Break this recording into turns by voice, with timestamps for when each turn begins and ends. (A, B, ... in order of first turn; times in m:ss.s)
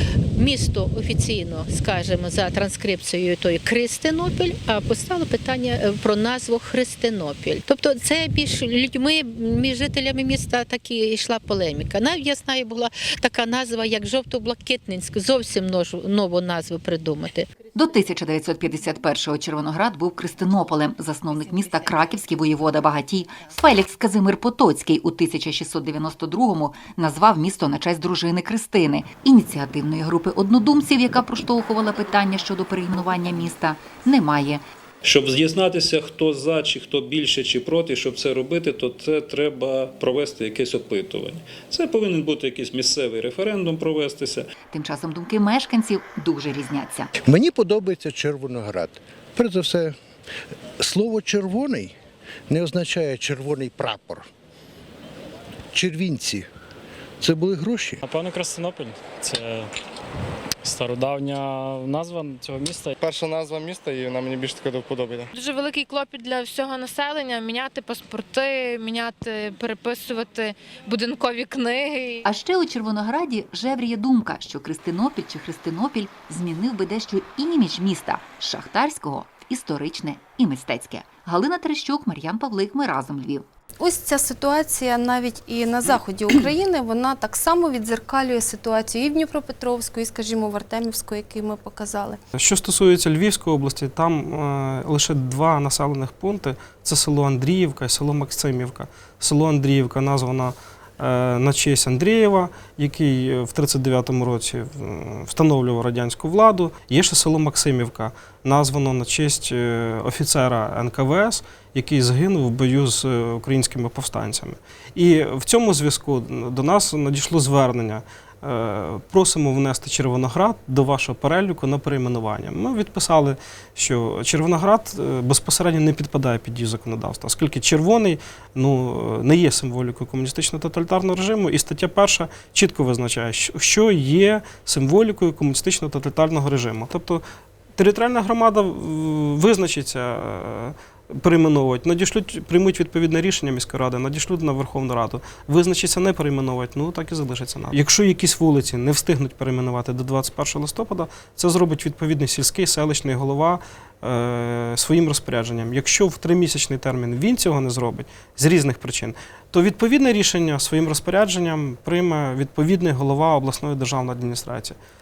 0:00.4-0:17.4 A
0:17.6-0:34.6 B
0:35.0-0:44.4 C
0:44.7-0:47.1 B
0:47.3-0:49.9 D
0:50.8-0:51.9 D
0:52.5-0:54.2 D
0:55.7-0:56.4 D
0:57.2-0:57.9 D
0:58.1-0:59.6 E
1:00.6-1:02.9 E
1:03.0-1:05.2 F
1:05.3-1:12.1 G
1:12.2-1:23.4 B
1:23.8-1:32.2 H
1:32.4-2:17.2 I
2:17.8-2:44.8 I